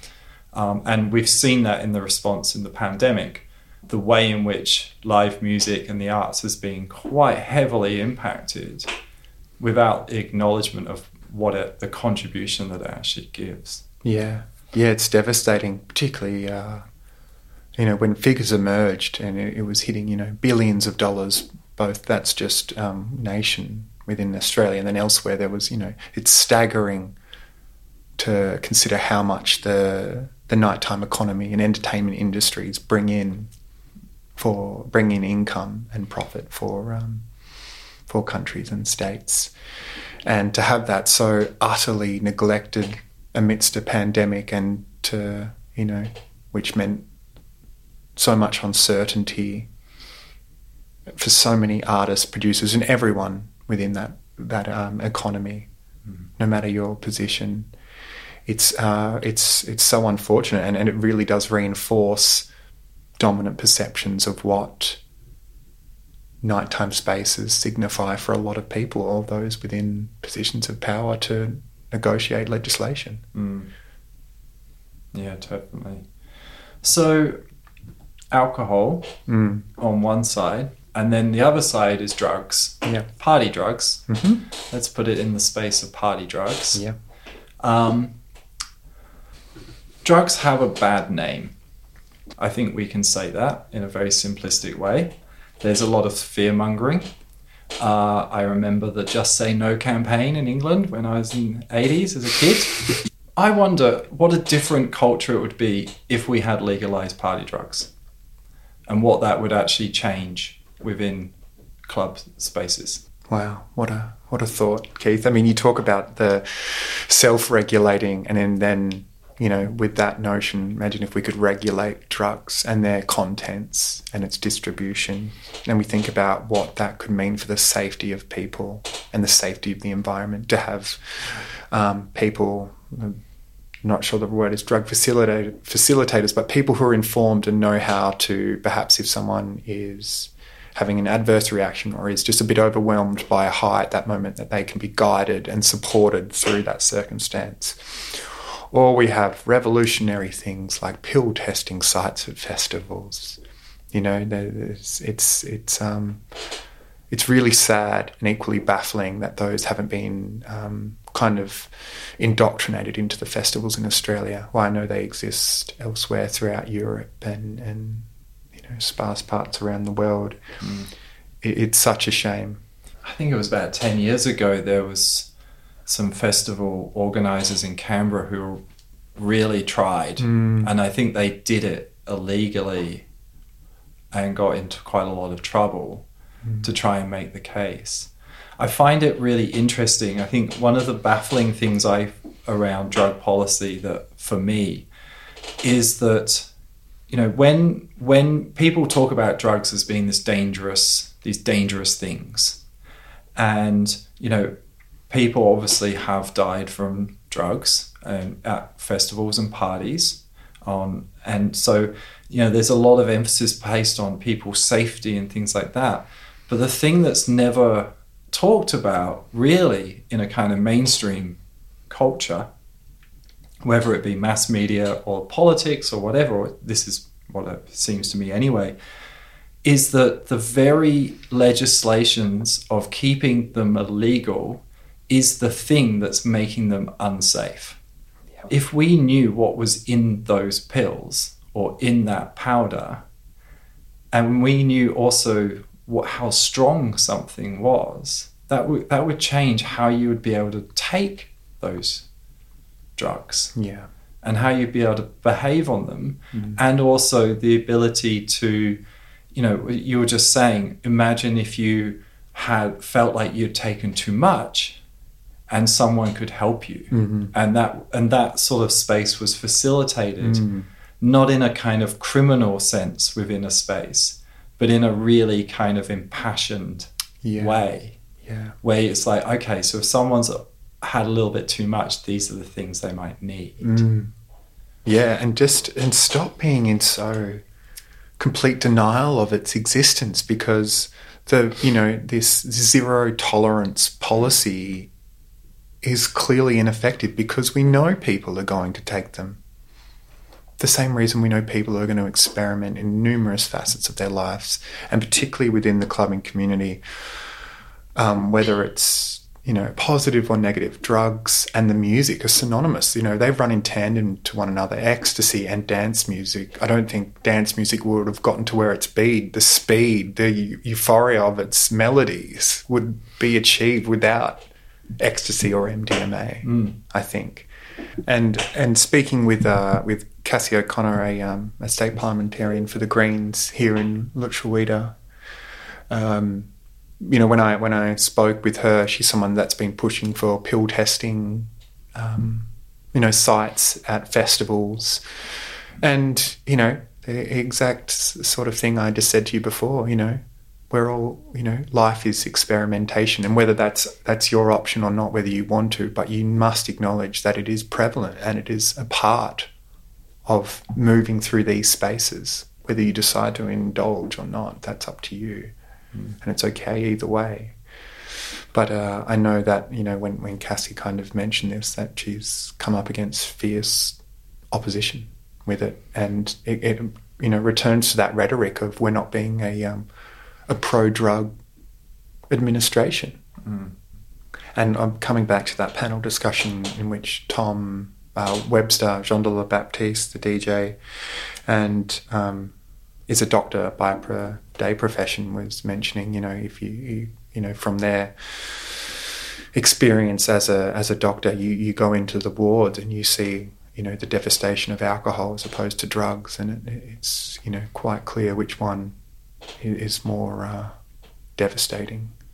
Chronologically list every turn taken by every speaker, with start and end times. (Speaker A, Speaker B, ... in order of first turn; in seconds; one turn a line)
Speaker A: 0.5-8.9
Speaker A: 9.6-13.8
Speaker B: 14.0-16.8
Speaker B: 17.8-27.1
Speaker B: 28.2-33.5
Speaker B: 34.4-37.2
Speaker B: 38.1-39.5
Speaker B: 40.2-47.0
Speaker B: 48.1-49.7
Speaker B: 51.1-55.7
Speaker B: 56.4-57.7
Speaker B: 58.5-62.5
Speaker B: 63.2-65.0
Speaker B: 66.4-73.2
Speaker A: 73.3-73.7
Speaker A: 75.1-76.1
Speaker A: 76.8-77.4
Speaker A: 78.3-79.1
Speaker B: 79.3-79.7
Speaker A: 79.8-86.8
Speaker B: 84.1-84.4
Speaker A: 87.6-88.2
Speaker A: 90.0-91.5
Speaker A: 92.4-97.1
Speaker A: 97.8-107.9
Speaker A: 108.9-111.3
Speaker A: 111.9-113.0
Speaker B: 113.3-133.2
Speaker B: 133.8-153.4
Speaker B: 153.9-156.2
Speaker B: 157.1-170.4
Speaker A: 170.6-170.9
Speaker B: 171.4-172.6
Speaker A: 173.0-175.3
Speaker A: 175.9-178.6
Speaker A: 179.2-183.0
Speaker B: 180.2-180.7
Speaker A: 184.1-186.1
Speaker A: 186.6-194.9
Speaker A: 195.6-196.5
Speaker A: 197.1-202.6
Speaker A: 203.3-204.5
Speaker A: 205.1-222.5
Speaker A: 223.6-228.7
Speaker A: 229.6-237.8
Speaker A: 238.5-243.0
Speaker A: 244.1-252.1
Speaker A: 253.0-253.5
Speaker B: 253.5-253.9
Speaker A: 254.2-258.8
Speaker B: 256.3-256.6
Speaker A: 259.3-264.8
Speaker A: 265.5-270.4
Speaker B: 266.9-267.3
Speaker B: 270.2-270.7
Speaker A: 271.0-278.0
Speaker B: 277.2-277.6
Speaker B: 278.2-278.6
Speaker A: 278.6-283.8
Speaker B: 283.6-284.1
Speaker B: 284.8-287.4
Speaker B: 288.2-294.9
Speaker B: 295.8-299.4
Speaker B: 300.6-306.8
Speaker B: 307.9-324.4
Speaker B: 325.0-327.5
Speaker A: 326.4-326.8
Speaker B: 328.0-334.9
Speaker B: 335.9-336.5
Speaker B: 337.0-345.0
Speaker B: 345.8-359.5
Speaker B: 360.2-365.5
Speaker B: 366.2-367.6
Speaker B: 368.5-374.0
Speaker B: 374.5-379.9
Speaker B: 380.5-381.4
Speaker B: 382.3-383.2
Speaker A: 383.4-383.7
Speaker B: 384.5-392.5
Speaker B: 393.1-408.9
Speaker B: 409.6-410.8
Speaker B: 411.4-412.1